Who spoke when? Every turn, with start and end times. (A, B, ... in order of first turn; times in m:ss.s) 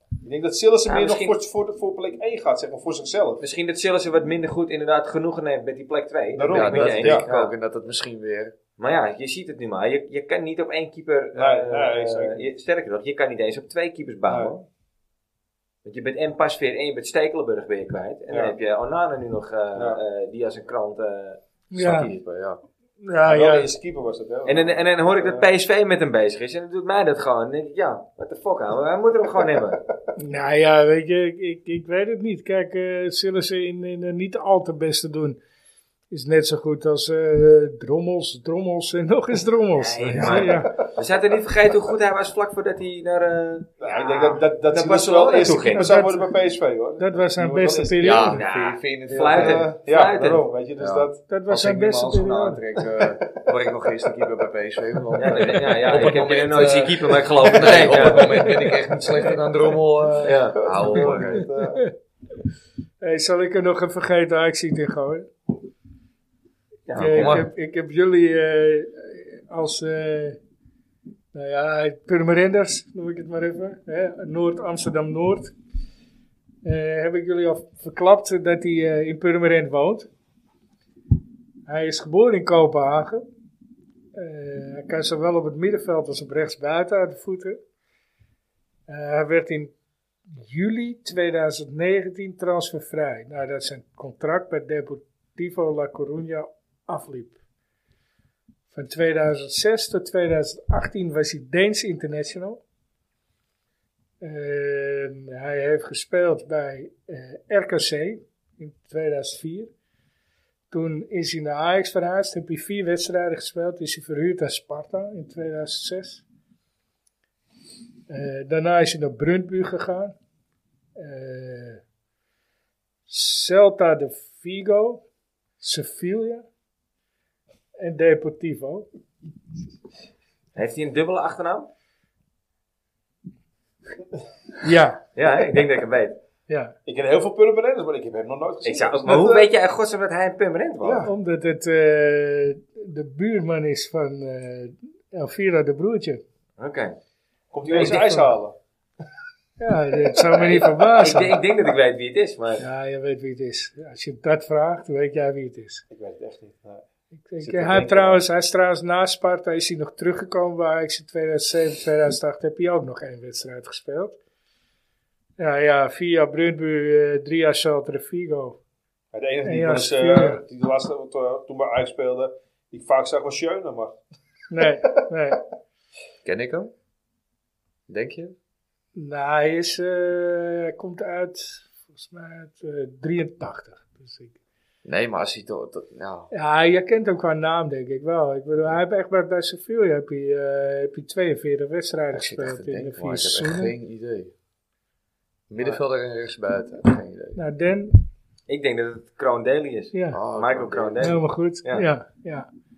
0:00.2-0:03.4 A
0:00.8-0:01.4 B
0:03.4-0:07.5 B
0:06.3-0:07.2 A
0:06.4-0:08.5 C
0:08.8-0:14.6 B
0:11.3-0:12.5 A
0:14.3-0:14.5 A
0:15.8-0:21.4 B
0:18.3-0:18.5 A
0:19.7-0:20.0 A
0:21.7-0:22.1 D
0:21.8-0:22.6 C
0:23.0-0:23.7 D
0:23.2-0:25.5 A
0:24.4-0:29.8 B
0:30.2-0:35.4 D
0:36.1-0:40.7 D
0:39.7-0:46.0 B
0:40.1-0:40.7 A
0:43.8-0:48.2 A
0:45.7-0:46.4 D
0:47.0-0:48.4 D
0:48.0-0:49.6 C
0:48.2-0:50.4 B
0:49.2-0:51.2 A
0:50.8-1:01.5 C
0:51.3-0:52.6 D
0:55.2-0:58.5 B
0:58.2-0:58.8 D
1:00.2-1:01.3 B
1:00.6-1:01.9 A
1:01.6-1:01.9 D
1:03.0-1:05.3 D
1:06.9-1:07.4 B
1:07.0-1:10.4 D
1:07.0-1:07.5 C
1:11.3-1:15.5 D
1:16.6-1:20.1 D
1:21.7-1:23.2 D
1:24.1-1:27.6 D
1:28.9-1:29.7 D
1:30.4-1:37.4 D
1:38.7-1:42.6 D
1:44.2-1:49.7 D
1:50.7-1:56.2 D
1:58.1-2:00.1 D
2:01.0-2:01.8 D
2:03.1-2:05.0 D
2:05.6-2:06.4 D
2:07.8-2:08.9 D
2:10.5-2:11.7 B
2:14.6-2:15.0 D
2:15.1-2:16.2 B
2:16.5-2:16.7 D
2:16.8-2:19.5 A
2:18.6-2:21.1 B
2:20.8-2:21.1 A
2:21.0-2:26.2 D
2:26.6-2:26.9 B
2:27.5-2:28.5 A
2:27.7-2:28.3 D
2:29.6-2:31.4 D
2:30.3-2:32.6 B
2:32.6-2:35.8 D
2:35.9-2:36.8 A
2:37.3-2:44.2 D
2:37.4-2:38.2 A
2:37.5-2:38.0 B
2:45.4-2:48.6 D
2:49.1-2:54.0 A
2:49.4-2:50.4 D
2:54.5-2:55.4 D
2:56.2-2:56.7 C
2:57.9-2:58.4 C
2:58.9-3:04.4 D
3:04.8-3:06.3 C
3:06.3-3:13.7 D
3:12.1-3:14.3 C
3:15.5-3:17.4 C
3:17.4-3:18.0 D
3:18.5-3:21.8 B
3:19.9-3:20.2 D
3:20.1-3:21.2 C
3:21.0-3:22.5 D